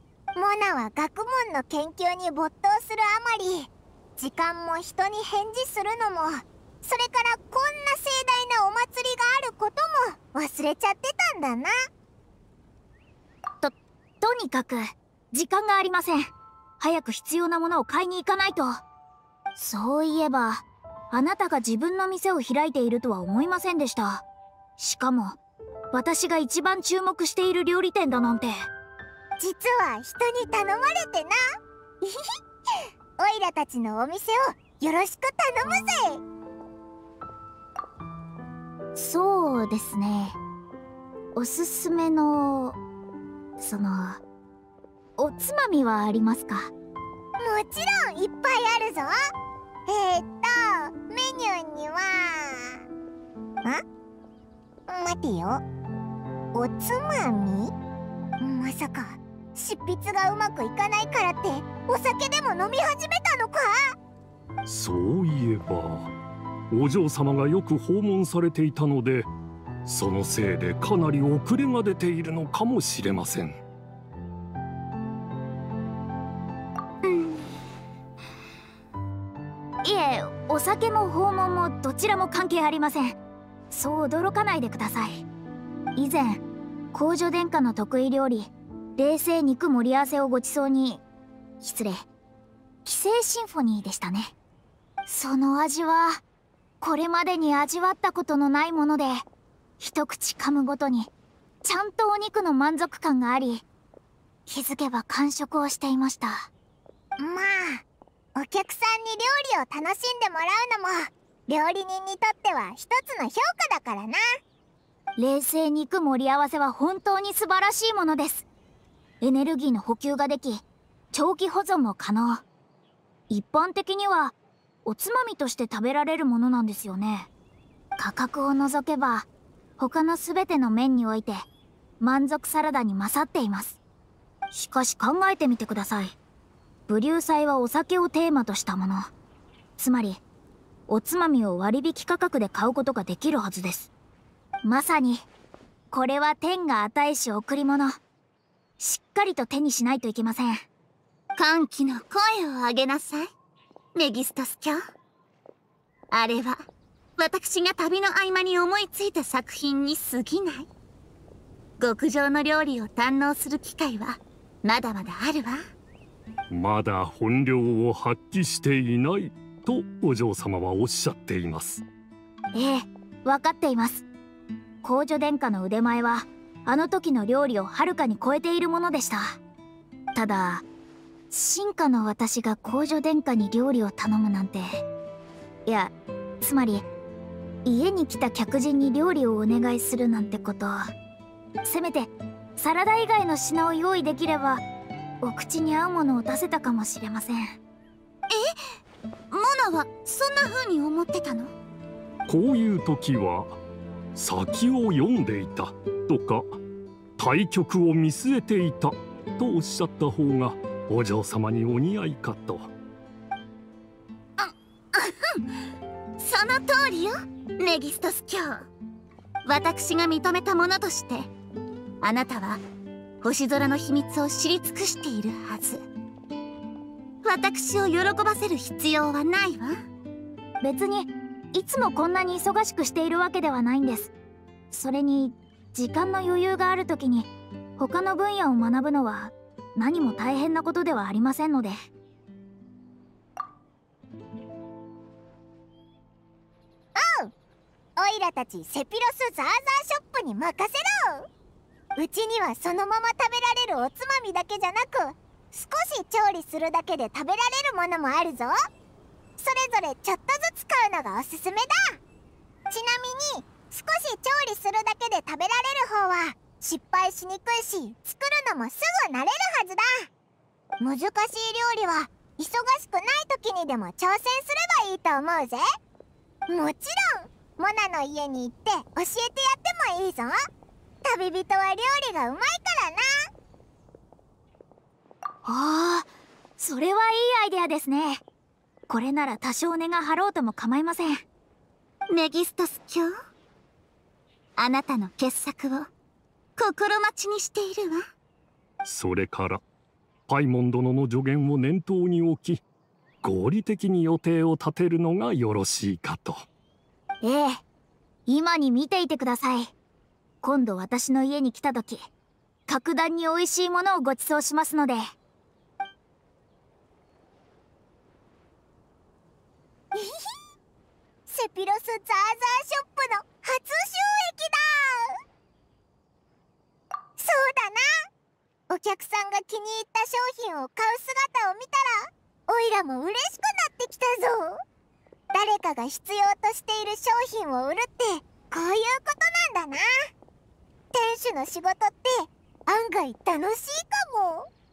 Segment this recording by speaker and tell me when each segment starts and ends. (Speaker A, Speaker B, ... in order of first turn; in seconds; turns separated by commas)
Speaker A: 0.3-11.7, Speaker B: 13.6-18.8, Speaker B: 19.6-24.2, Speaker B: 24.8-25.4, Speaker B: 25.9-28.7, Speaker A: 29.4-31.4, Speaker A: 32.0-36.2, Speaker B: 38.9-40.4, Speaker B: 41.3-42.8, Speaker B: 43.6-44.2, Speaker B: 45.2-46.7, Speaker A: 47.4-49.1, Speaker A: 49.9-52.8, Speaker A: 54.9-55.6, Speaker A: 56.5-57.7, Speaker A: 58.4-63.9, Speaker C: 64.6-66.1, Speaker C: 66.7-69.3, Speaker C: 69.8-73.6, Speaker B: 79.8-83.2, Speaker B: 83.7-85.2, Speaker B: 85.9-91.0, Speaker B: 91.6-92.0, Speaker B: 92.8-94.3, Speaker B: 95.0-96.2, Speaker B: 96.8-99.2, Speaker B: 99.8-101.1, Speaker B: 101.6-103.6, Speaker B: 104.5-106.5, Speaker A: 107.2-107.8, Speaker A: 108.3-114.2, Speaker B: 115.2-118.5, Speaker B: 119.2-122.4, Speaker B: 123.3-127.3, Speaker B: 128.0-129.3, Speaker B: 129.8-131.5, Speaker B: 132.0-133.8, Speaker B: 134.5-136.2, Speaker B: 136.9-139.1, Speaker B: 139.8-140.2, Speaker B: 140.9-143.9, Speaker B: 144.6-145.2, Speaker B: 145.9-148.0, Speaker B: 148.8-150.7, Speaker D: 151.3-153.3, Speaker D: 153.9-154.8, Speaker D: 156.1-156.6, Speaker D: 157.2-160.7, Speaker D: 161.8-165.6, Speaker C: 166.5-171.8, Speaker B: 172.5-174.0, Speaker B: 174.8-179.4, Speaker B: 180.1-180.6, Speaker B: 181.3-184.7, Speaker B: 185.7-186.8, Speaker B: 187.6-190.9, Speaker B: 191.6-194.6, Speaker B: 195.2-197.6, Speaker D: 199.3-201.5, Speaker C: 202.3-203.6, Speaker C: 204.1-206.4, Speaker C: 207.2-212.7, Speaker D: 214.4-215.5, Speaker D: 216.2-218.7, Speaker D: 219.4-221.3, Speaker D: 222.0-222.6, Speaker D: 223.2-225.8, Speaker D: 227.2-229.7, Speaker B: 230.6-234.1, Speaker B: 234.7-241.8, Speaker A: 246.9-247.3, Speaker A: 248.0-251.3, Speaker A: 252.0-258.5, Speaker A: 259.4-262.0, Speaker A: 262.7-270.1, Speaker A: 270.8-275.6, Speaker A: 276.5-280.4, Speaker A: 281.0-283.1, Speaker B: 285.4-288.2, Speaker B: 288.9-291.2, Speaker D: 292.1-293.1, Speaker D: 294.6-295.9, Speaker D: 296.6-298.0, Speaker C: 298.8-299.6, Speaker C: 300.3-302.6, Speaker C: 303.2-306.4, Speaker B: 307.2-307.6, Speaker B: 308.3-309.7, Speaker B: 310.4-312.1, Speaker B: 312.7-315.0, Speaker A: 319.9-320.3, Speaker A: 321.3-325.2, Speaker A: 327.2-327.9, Speaker A: 328.7-334.6, Speaker A: 335.3-339.8, Speaker A: 340.9-344.5